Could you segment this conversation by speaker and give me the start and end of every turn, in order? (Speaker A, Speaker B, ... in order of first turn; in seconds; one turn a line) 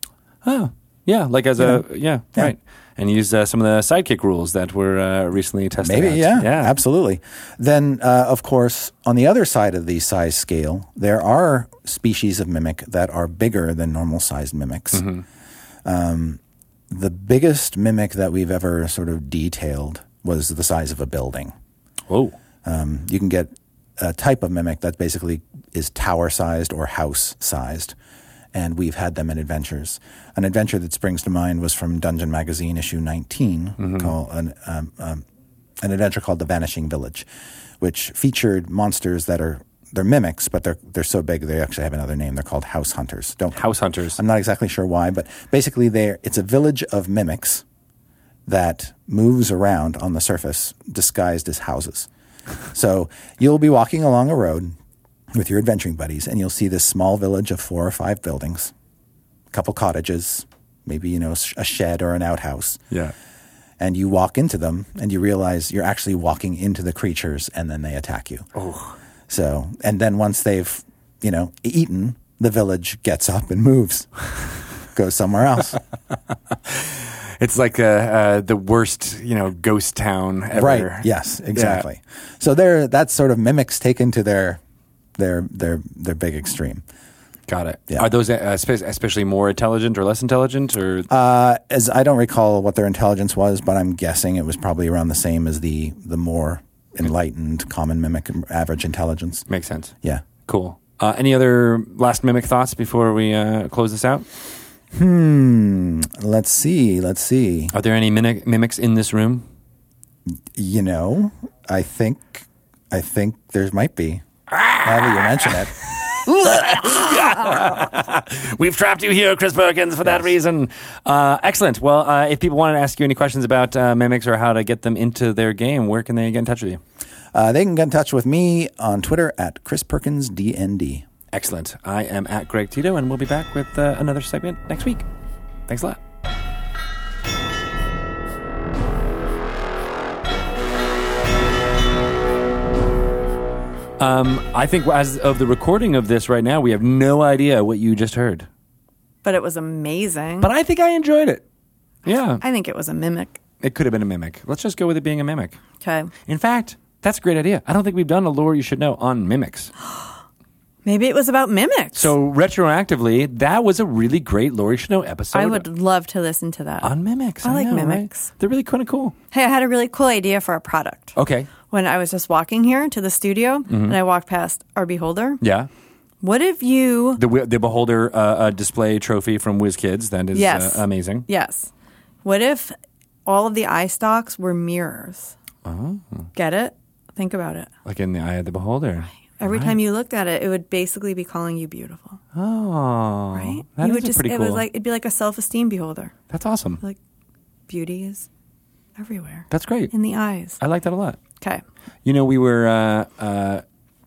Speaker A: 0.4-6.8
Speaker B: 1.6-1.8
Speaker B: 5.8-15.1
Speaker A: 14.9-15.2
Speaker B: 15.8-21.5
Speaker A: 22.1-22.4
Speaker B: 22.6-27.9
Speaker B: 28.5-35.2
Speaker A: 33.8-34.1
Speaker B: 35.8-37.3
Speaker B: 37.8-43.6
Speaker A: 43.5-44.2
Speaker B: 44.1-47.6
Speaker B: 48.5-52.1
Speaker B: 52.7-54.7
Speaker B: 55.3-58.7
Speaker B: 59.5-62.8
Speaker B: 63.8-68.5
Speaker A: 68.6-69.0
Speaker B: 69.3-75.8
Speaker A: 76.7-81.8
Speaker B: 80.5-84.6
Speaker B: 85.2-86.8
Speaker A: 87.5-91.1
Speaker B: 91.1-99.5
Speaker A: 99.5-99.9
Speaker A: 100.5-104.2
Speaker B: 104.9-107.7
Speaker A: 107.7-109.5
Speaker B: 110.5-114.2
Speaker A: 114.5-126.8
Speaker B: 114.8-115.8
Speaker B: 127.3-131.1
Speaker A: 131.3-135.1
Speaker A: 135.7-136.0
Speaker A: 144.0-148.5
Speaker C: 149.2-150.5
Speaker A: 150.4-151.4
Speaker A: 152.1-152.4
Speaker C: 152.4-153.4
Speaker A: 153.6-155.6
Speaker C: 155.8-156.1
Speaker A: 156.3-159.7
Speaker C: 160.8-162.1
Speaker A: 162.0-165.7
Speaker C: 165.3-166.9
Speaker A: 166.8-169.2
Speaker C: 167.4-168.3
Speaker C: 169.3-171.1
Speaker A: 171.2-171.5
Speaker C: 171.7-175.4
Speaker A: 173.7-174.0
Speaker A: 175.4-175.7
Speaker C: 176.2-177.2
Speaker A: 177.2-181.3
Speaker C: 180.3-181.7
Speaker C: 182.2-182.8
Speaker C: 183.3-185.3
Speaker A: 185.7-186.3
Speaker C: 186.3-187.7
Speaker A: 187.8-189.8
Speaker C: 189.4-192.2
Speaker A: 192.3-194.7
Speaker C: 193.3-196.1
Speaker A: 196.3-196.8
Speaker C: 197.7-198.3
Speaker C: 199.0-200.6
Speaker A: 199.5-199.9
Speaker A: 200.6-201.2
Speaker A: 202.1-203.6